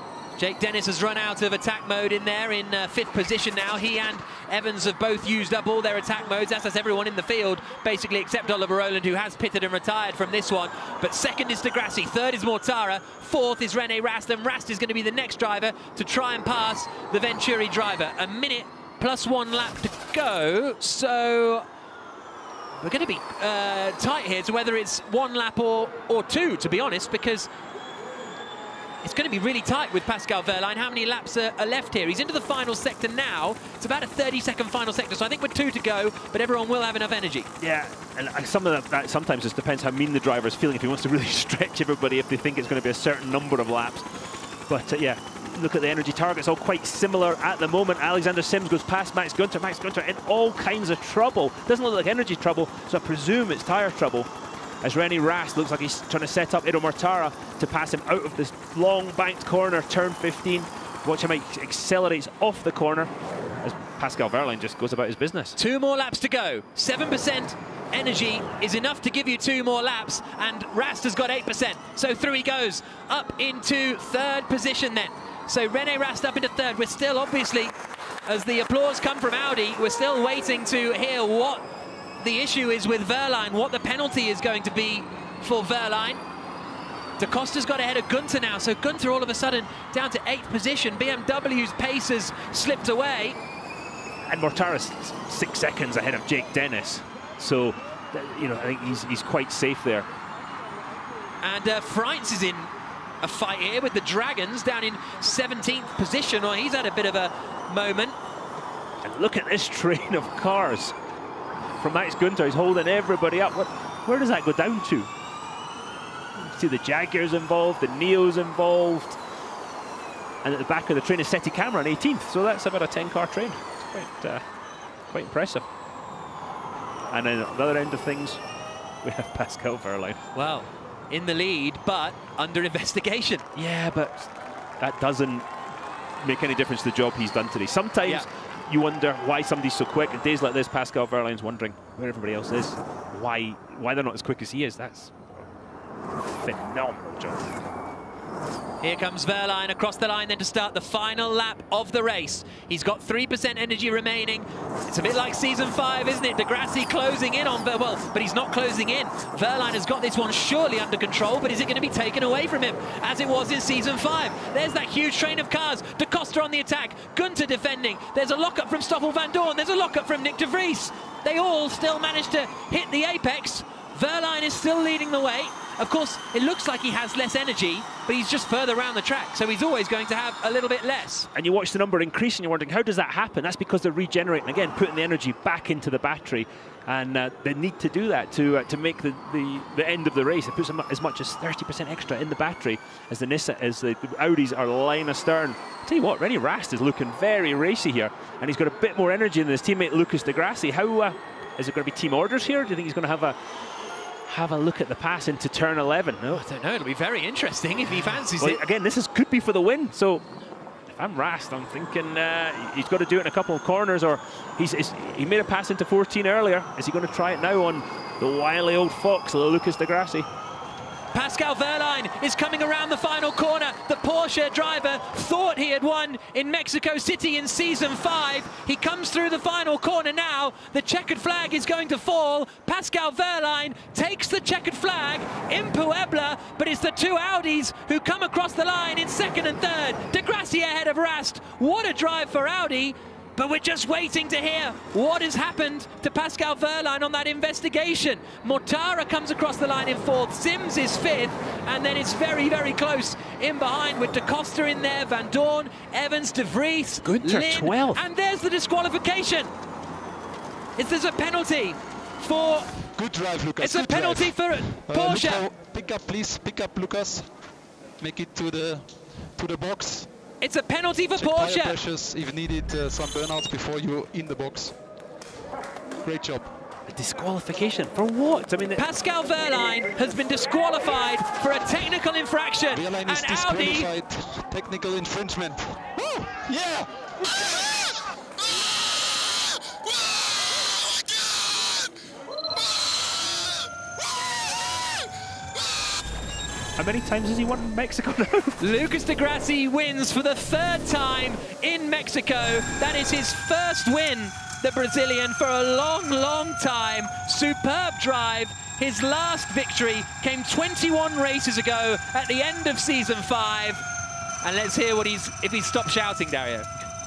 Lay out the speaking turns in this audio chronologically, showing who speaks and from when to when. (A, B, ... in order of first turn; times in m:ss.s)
0:00.4-0:21.6 A
0:22.8-0:27.5 A
0:29.0-0:37.5 A
0:37.6-0:44.1 B
0:44.7-0:54.3 B
0:54.8-1:03.1 B
1:03.6-1:05.5 B
1:05.6-1:17.7 A
1:18.2-1:21.6 A
1:22.2-1:26.2 A
1:27.2-1:33.4 A
1:34.3-1:40.1 B
1:41.4-1:48.2 A
1:49.0-1:50.9 B
1:51.8-1:55.1 B
1:56.4-1:59.2 B
2:00.4-2:04.4 B
2:05.1-2:05.6 B
2:07.1-2:08.4 B
2:09.0-2:10.2 B
2:10.3-2:13.4 A
2:13.5-2:15.4 B
2:16.2-2:25.5 B
2:26.3-2:27.6 B
2:28.8-3:01.3 A
3:01.3-3:23.4 B
3:24.2-3:26.4 B
3:26.3-3:28.6 A
3:28.4-3:30.2 B
3:30.9-3:40.3 B
3:41.1-4:19.5 A
4:17.0-4:18.0 B
4:20.8-4:22.7 A
4:22.9-4:27.3 C
4:23.6-4:25.4 A
4:28.0-4:30.1 C
4:30.4-4:31.8 A
4:31.1-4:34.7 C
4:36.0-4:36.5 C
4:36.9-4:38.8 B
4:38.8-4:43.9 A
4:42.7-4:45.8 C
4:46.5-4:51.9 C
4:52.5-4:55.0 C
4:56.8-4:58.6 B
4:58.6-5:13.8 A
5:14.4-5:16.7 A